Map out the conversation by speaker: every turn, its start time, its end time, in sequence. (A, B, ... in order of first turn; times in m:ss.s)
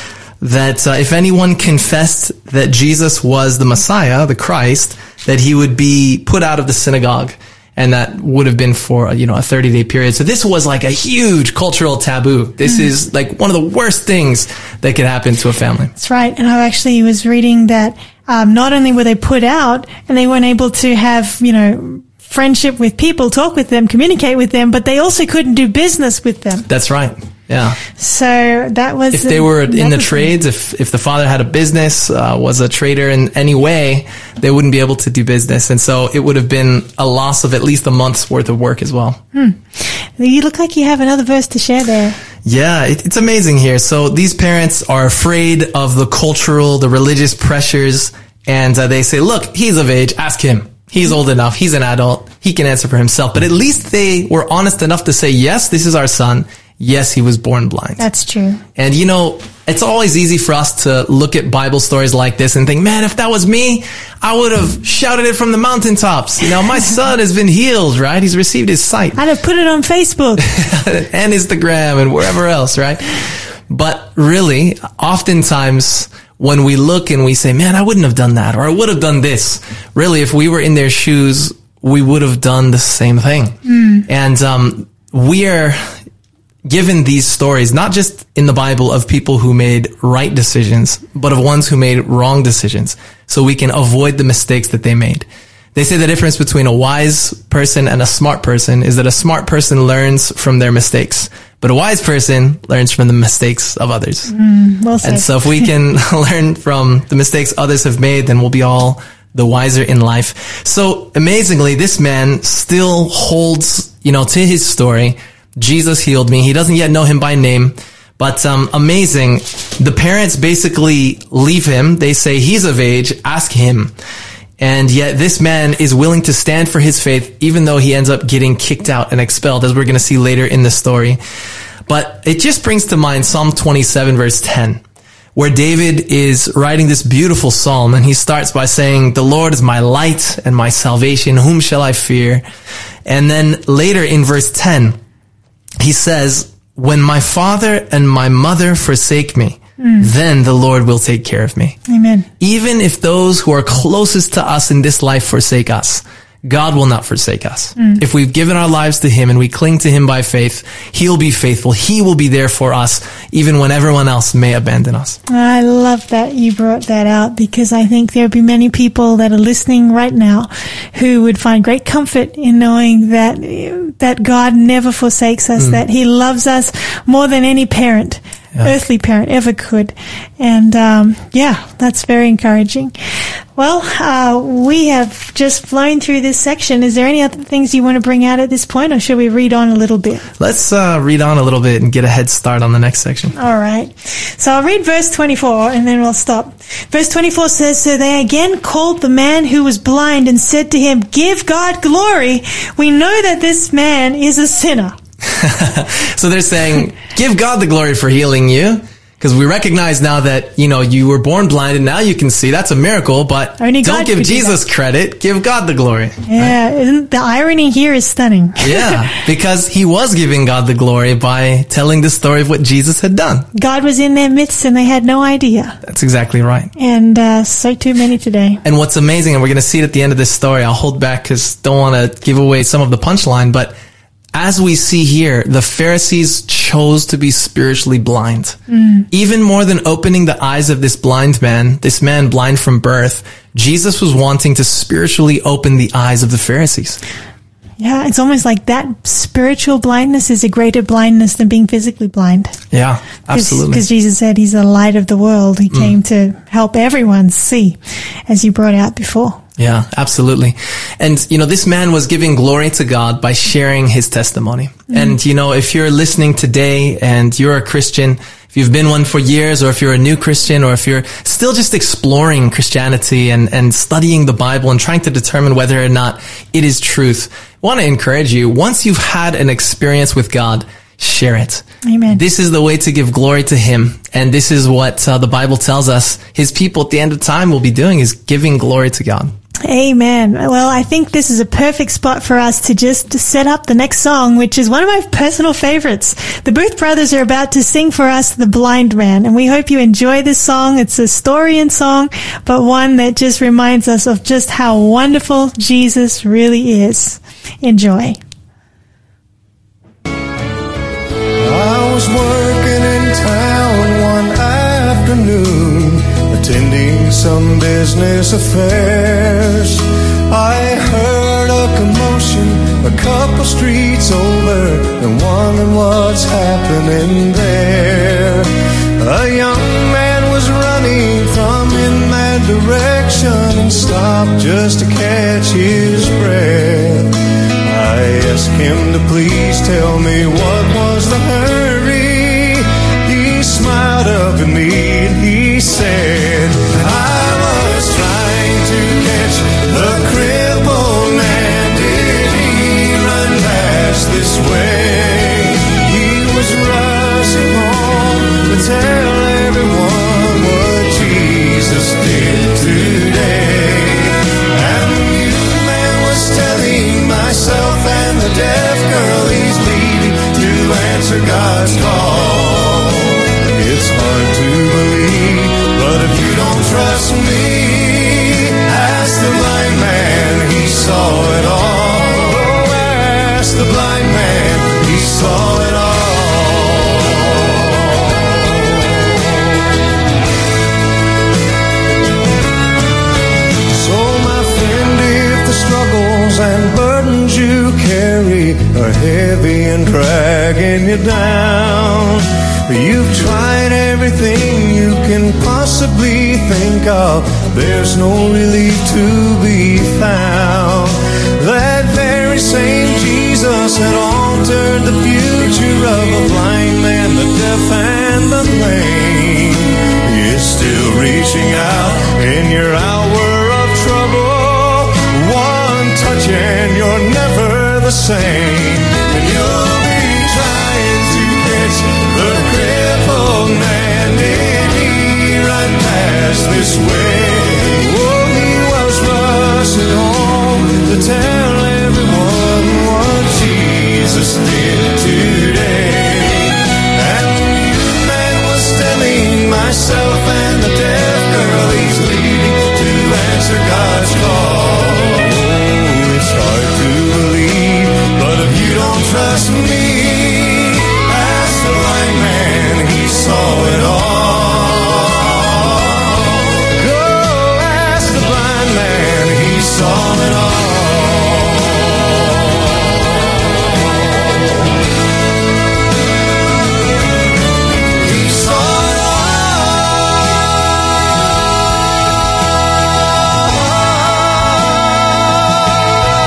0:00.4-0:15.9 A
0:16.0-0:26.7 B
0:26.7-0:27.8 A
0:28.0-0:30.3 B
0:29.1-0:39.2 A
0:39.3-0:42.2 B
0:42.4-0:58.0 A
0:58.0-0:58.6 B
0:58.8-1:09.2 A
1:09.2-1:10.4 B
1:10.4-1:13.1 A
1:13.7-1:26.0 A
1:23.7-1:24.0 B
1:26.6-1:44.3 A
1:44.3-1:45.7 B
1:45.0-2:03.9 A
2:04.6-2:11.2 A
2:11.9-2:14.8 A
2:15.3-2:22.4 A
2:23.0-2:25.0 A
2:25.8-2:31.8 A
2:29.8-2:30.1 B
2:31.9-2:32.3 B
2:32.4-2:45.2 A
2:45.3-3:02.9 B
3:03.6-3:10.2 B
3:10.4-3:13.3 A
3:13.4-3:24.9 B
3:25.2-3:36.6 A
3:33.6-3:34.6 B
3:36.3-3:39.0 B
3:38.6-3:43.5 A
3:43.5-3:45.8 B
3:45.8-3:46.7 A
3:46.8-3:48.6 B
3:48.6-3:53.7 A
3:54.3-3:58.6 A
3:58.7-3:59.1 B
3:59.1-4:07.0 A
4:07.8-4:12.6 B
4:12.7-4:13.8 A
4:13.3-4:17.8 B
4:18.3-4:19.4 B
4:19.6-4:49.3 A
4:41.8-4:42.2 B
4:49.6-5:08.2 B
5:11.4-6:29.3 C
6:33.7-7:54.2 C
7:58.0-8:00.1 C